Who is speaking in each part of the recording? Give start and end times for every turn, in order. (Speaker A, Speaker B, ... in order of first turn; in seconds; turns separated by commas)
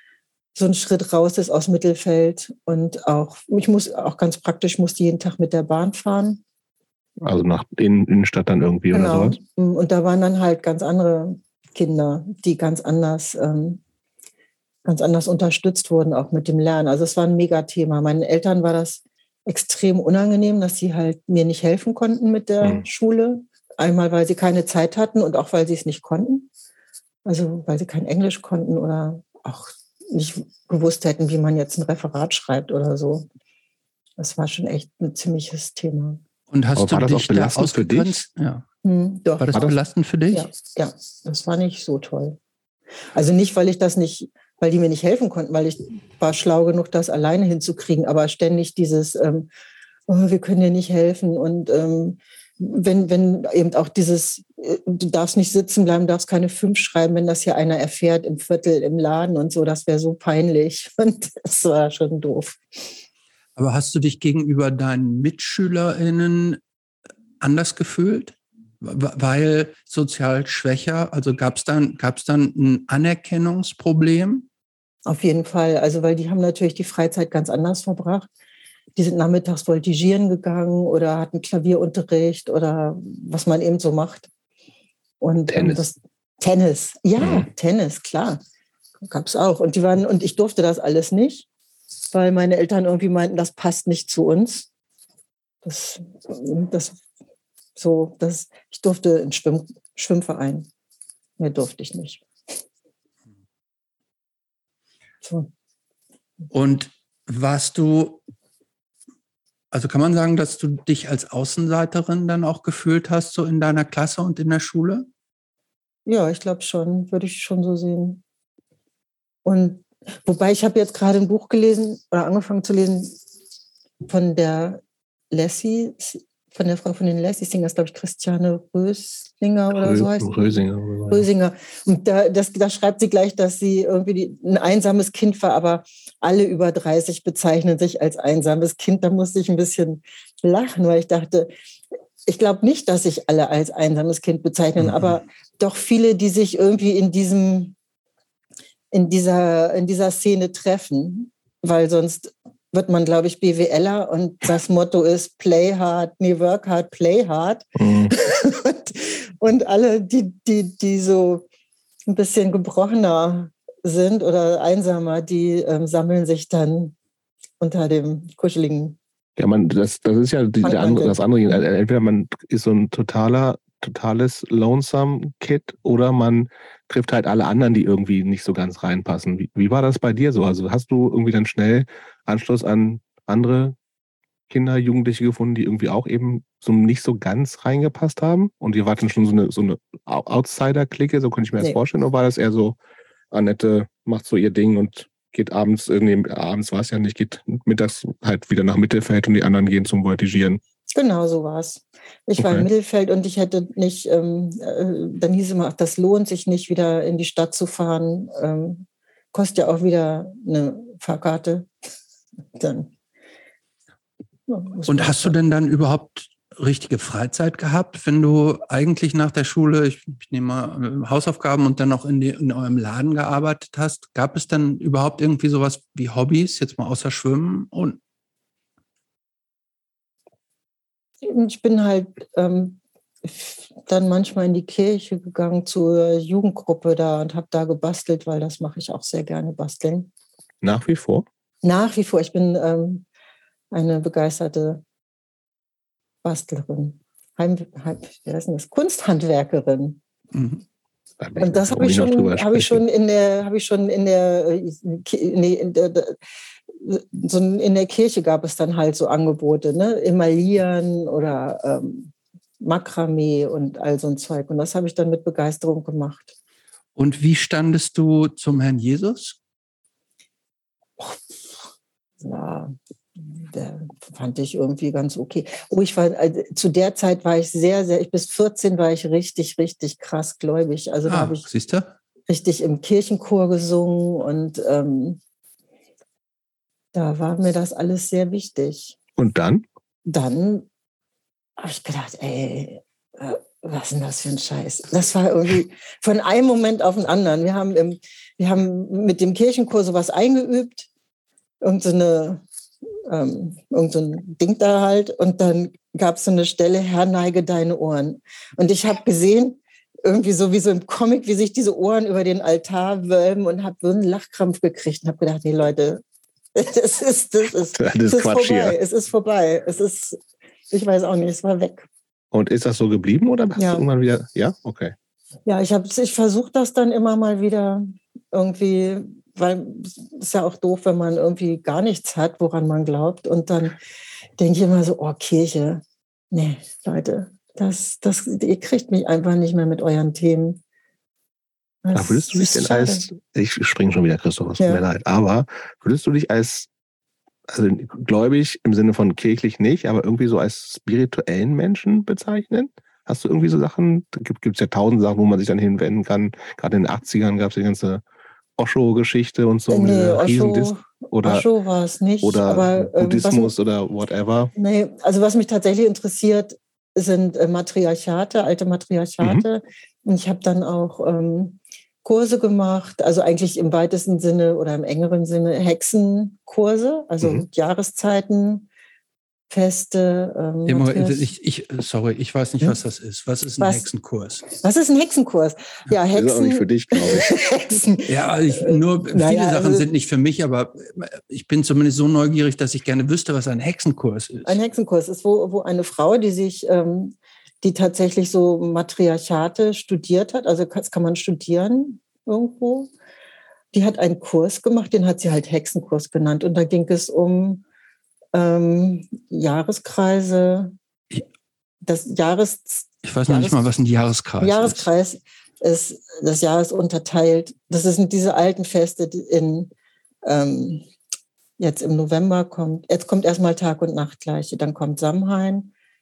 Speaker A: 0.6-6.4, Speaker B: 7.2-9.4, Speaker A: 8.9-13.8, Speaker A: 14.8-26.5, Speaker A: 27.2-33.3, Speaker A: 34.2-36.2, Speaker C: 36.5-38.6, Speaker B: 36.8-38.2, Speaker A: 38.8-39.7, Speaker C: 39.4-40.5, Speaker A: 40.3-42.4, Speaker A: 43.1-49.5, Speaker A: 50.1-62.9, Speaker C: 63.6-66.6, Speaker C: 67.4-74.5, Speaker A: 75.1-78.3, Speaker A: 79.0-84.3, Speaker A: 85.2-88.4, Speaker B: 85.5-85.8, Speaker B: 87.2-87.5, Speaker A: 89.1-91.5, Speaker A: 92.1-94.7, Speaker A: 95.6-97.0, Speaker A: 97.8-100.7, Speaker A: 101.4-102.2, Speaker A: 105.2-105.5, Speaker C: 106.5-108.2, Speaker C: 109.7-115.1, Speaker A: 116.1-118.2, Speaker A: 119.5-123.2, Speaker A: 124.0-124.8, Speaker A: 125.3-141.5, Speaker B: 129.8-131.3, Speaker A: 142.3-147.8, Speaker C: 144.9-145.2, Speaker A: 148.9-161.4, Speaker B: 157.8-158.1, Speaker A: 162.1-166.9, Speaker A: 167.6-169.0, Speaker B: 169.4-183.8, Speaker A: 170.6-171.2, Speaker B: 184.5-192.8, Speaker B: 193.3-200.6, Speaker A: 200.9-211.7, Speaker B: 202.4-202.7, Speaker A: 212.6-212.9, Speaker A: 214.5-215.3, Speaker C: 214.9-228.0, Speaker A: 231.2-240.1, Speaker B: 240.6-241.3, Speaker A: 241.6-243.1, Speaker A: 243.7-244.8, Speaker A: 246.2-250.0, Speaker C: 250.3-250.6, Speaker B: 251.2-252.8, Speaker A: 251.4-256.2, Speaker A: 256.8-266.4, Speaker C: 267.0-269.4, Speaker A: 272.2-281.4, Speaker C: 281.1-281.9, Speaker A: 282.3-285.2, Speaker A: 286.9-289.0, Speaker B: 289.2-289.6, Speaker A: 290.1-290.7, Speaker A: 291.6-300.9, Speaker A: 301.6-302.4, Speaker A: 303.1-316.0, Speaker A: 316.6-321.9, Speaker B: 317.8-318.8, Speaker B: 322.3-324.9, Speaker A: 323.6-323.9, Speaker A: 325.5-333.8, Speaker A: 334.4-340.6, Speaker A: 341.8-343.1, Speaker B: 341.9-346.7, Speaker B: 347.5-358.0, Speaker B: 358.6-361.5, Speaker A: 359.7-363.5, Speaker B: 362.2-364.5, Speaker A: 364.6-378.7, Speaker A: 379.5-381.3, Speaker C: 380.7-384.4, Speaker A: 383.6-383.9, Speaker A: 384.5-389.9, Speaker B: 386.1-387.3, Speaker C: 388.1-394.6, Speaker A: 394.5-402.9, Speaker A: 403.7-407.6, Speaker A: 408.3-410.8, Speaker A: 411.8-413.6, Speaker C: 413.0-414.9, Speaker A: 414.4-419.7, Speaker A: 420.2-420.8, Speaker A: 421.6-425.7